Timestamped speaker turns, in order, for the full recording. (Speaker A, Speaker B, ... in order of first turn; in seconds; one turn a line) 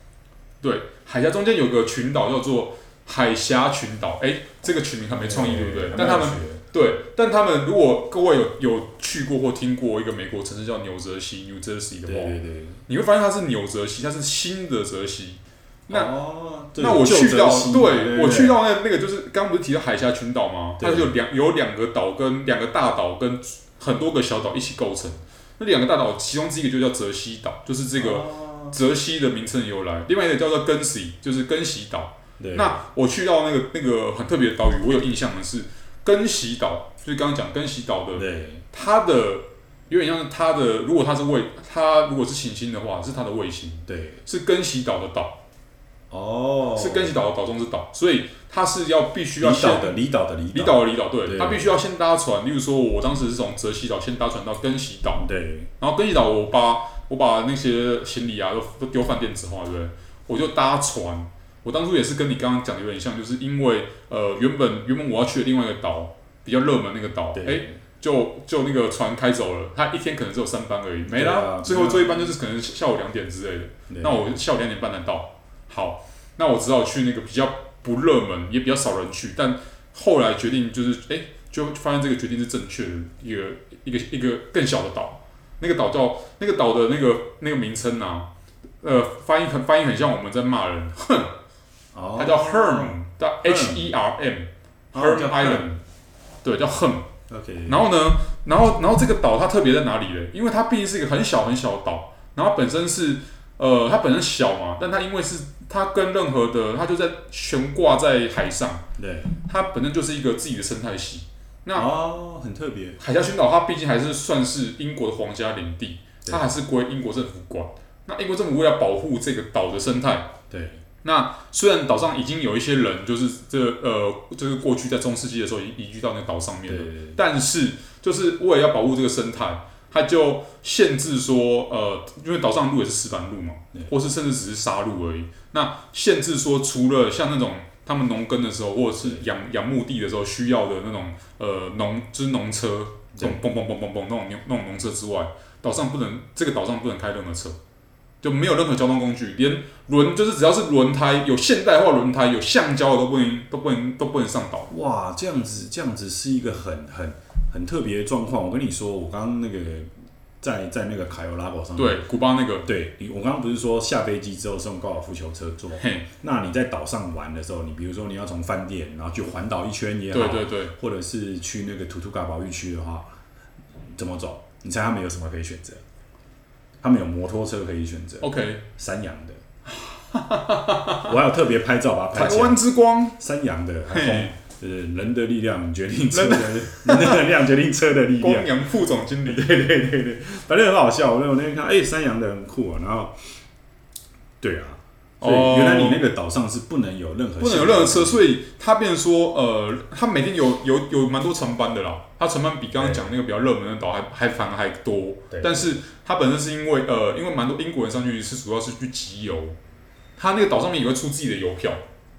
Speaker A: 0.6-16.1
Speaker B: 5.2-6.6
Speaker B: 12.1-12.8
Speaker B: 15.9-18.6
Speaker A: 16.8-45.4
Speaker B: 20.8-21.2
Speaker B: 28.0-28.8
Speaker B: 32.4-32.8
Speaker B: 38.1-38.6
Speaker B: 43.9-44.2
Speaker B: 46.1-47.1
Speaker A: 46.8-50.0
Speaker B: 49.4-51.7
Speaker A: 50.5-55.2
Speaker B: 55.2-55.7
Speaker A: 55.8-88.3
Speaker B: 67.3-67.8
Speaker B: 71.0-72.1
Speaker B: 73.9-74.2
Speaker A: 88.8-91.3
Speaker B: 91.9-93.9
Speaker A: 92.2-95.8
Speaker B: 94.9-95.7
Speaker A: 96.4-97.1
Speaker B: 97.3-97.9
Speaker A: 97.7-108.8
Speaker B: 109.0-109.3
Speaker A: 109.4-111.9
Speaker B: 111.7-113.0
Speaker A: 113.0-120.3
Speaker B: 116.2-116.5
Speaker B: 120.5-120.8
Speaker A: 121.0-147.6
Speaker B: 126.7-127.2
Speaker B: 143.2-143.4
Speaker A: 148.2-154.7
Speaker B: 154.7-159.9
Speaker B: 160.4-162.0
Speaker A: 161.8-162.7
Speaker B: 162.6-173.1
Speaker A: 165.8-166.1
Speaker A: 170.1-170.7
Speaker B: 173.9-175.8
Speaker B: 176.8-179.4
Speaker A: 178.2-178.6
Speaker A: 179.7-181.1
Speaker B: 181.0-182.6
Speaker A: 182.1-183.2
Speaker B: 183.2-188.5
Speaker A: 183.9-184.3
Speaker A: 186.1-187.2
Speaker A: 188.2-189.5
Speaker B: 189.2-193.3
Speaker B: 194.4-198.2
Speaker A: 195.2-196.0
Speaker A: 197.4-209.6
Speaker B: 202.8-203.1
Speaker B: 205.3-205.8
Speaker A: 210.2-211.8